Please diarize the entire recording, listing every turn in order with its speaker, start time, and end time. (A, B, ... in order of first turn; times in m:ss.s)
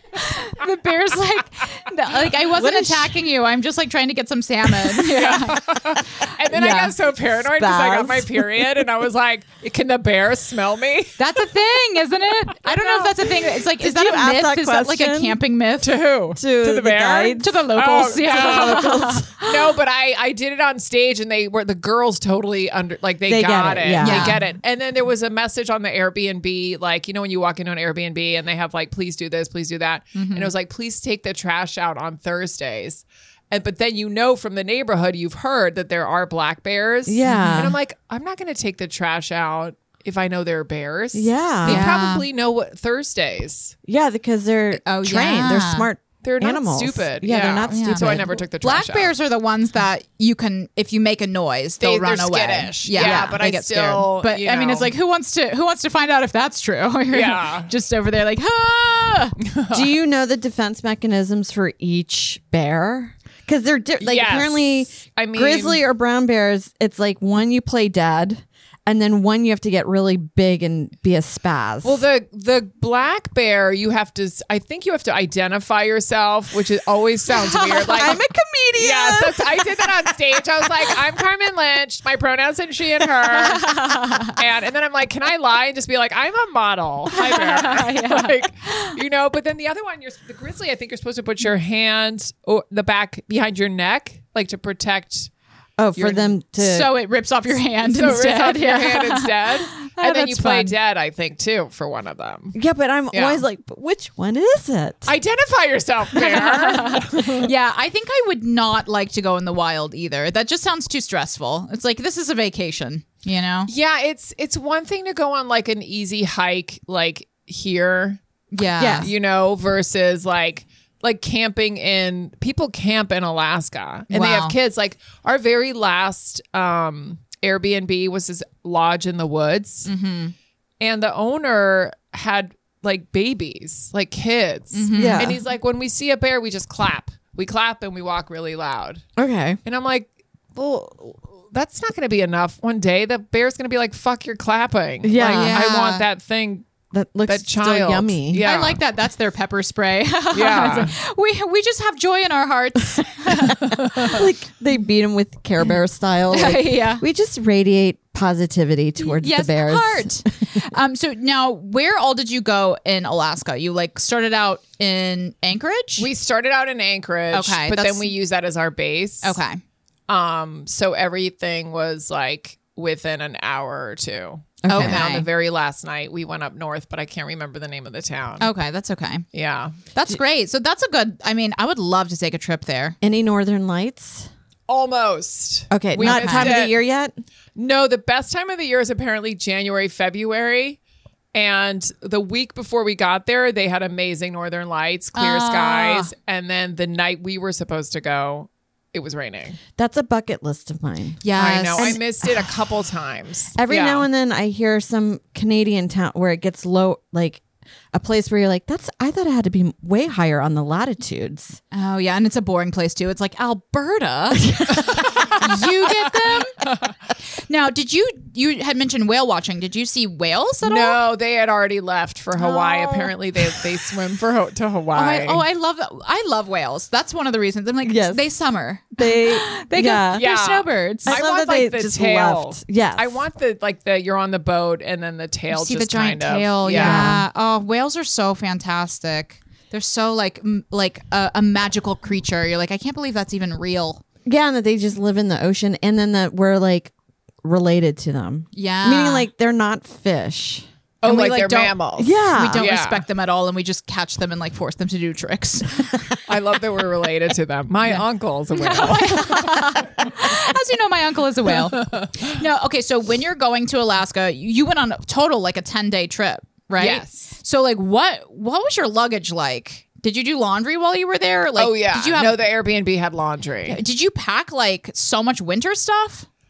0:00.2-0:06.9 A
0:02.5-0:03.1 B
0:04.9-0:11.2 C
0:07.4-0:08.9 B
0:11.2-0:16.0 A
0:12.6-0:13.3 C
0:13.8-0:15.4 B
0:15.8-0:43.7 C
0:16.4-0:17.6 B
0:17.4-0:19.7 A
0:18.2-0:19.3 B
0:23.3-0:24.4 B
0:24.0-0:24.4 A
0:30.1-0:30.5 A
0:37.0-0:37.8 B
0:37.2-0:37.7 A
0:41.1-0:41.9 B
0:41.6-0:42.2 A
0:43.8-0:48.3 B
0:44.7-0:45.9 A
0:46.2-0:49.1 C
0:47.7-0:59.4 A
0:51.8-0:54.9 C
0:53.0-0:53.4 B
0:57.1-0:57.7 C
0:59.5-0:59.9 C
0:59.7-1:12.0 B
1:04.0-1:05.8 C
1:11.8-1:18.2 C
1:17.9-1:19.7 B
1:18.8-1:23.7 C
1:23.4-1:24.4 A
1:24.2-1:35.3 C
1:27.1-1:29.0 A
1:35.8-1:36.9 B
1:36.0-1:36.4 C
1:36.6-1:40.7 A
1:37.8-1:42.5 C
1:42.5-1:45.1 B
1:43.1-1:43.4 C
1:45.0-1:47.5 C
1:46.2-1:53.7 A
1:53.7-1:58.2 C
1:58.5-1:59.1 A
1:58.8-1:59.1 B
1:59.0-2:09.9 C
2:04.1-2:04.5 A
2:09.8-2:10.3 A
2:10.8-2:19.0 C
2:14.7-2:15.4 A
2:14.9-2:15.4 B
2:19.2-2:19.6 B
2:19.6-2:26.7 C
2:25.0-2:25.6 B
2:25.2-2:26.0 A
2:26.9-2:28.4 B
2:27.2-2:28.8 C
2:28.4-2:34.1 A
2:30.3-2:30.9 C
2:33.8-2:34.1 C
2:34.0-2:40.6 B
2:36.3-2:37.0 A
2:39.0-2:46.1 A
2:46.0-2:49.4 C
2:47.3-2:48.1 A
2:49.2-2:49.6 A
2:50.1-2:58.5 C
2:54.6-2:55.0 B
2:54.7-2:55.2 A
2:58.4-2:59.2 A
2:59.3-2:59.8 C
2:59.9-3:03.0 A
3:03.0-3:04.3 B
3:04.7-3:06.8 C
3:05.7-3:07.1 B
3:06.0-3:06.6 A
3:07.6-3:10.8 C
3:11.3-3:19.6 C
3:15.1-3:16.1 A
3:19.7-3:21.2 B
3:21.2-3:22.0 A
3:21.4-3:24.0 C
3:21.8-3:22.0 B
3:23.5-3:31.6 B
3:31.7-3:36.6 A
3:34.4-3:34.8 B
3:34.8-3:35.6 C
3:36.6-3:36.9 C
3:37.4-3:41.0 A
3:40.6-3:45.4 C
3:42.4-3:43.1 B
3:44.9-3:51.2 A
3:47.8-3:48.2 B
3:49.0-3:50.2 B
3:50.1-3:57.1 C
3:51.1-3:53.2 B
3:55.5-4:04.0 A
3:56.7-3:57.2 B
4:04.2-4:10.6 B
4:08.5-4:09.3 A
4:11.0-4:13.0 C
4:11.0-4:16.0 A
4:12.0-4:12.6 B
4:16.3-4:19.6 C
4:17.9-4:32.4 A
4:21.7-4:22.3 C
4:26.8-4:27.3 C
4:31.6-4:33.8 C
4:33.7-4:36.2 A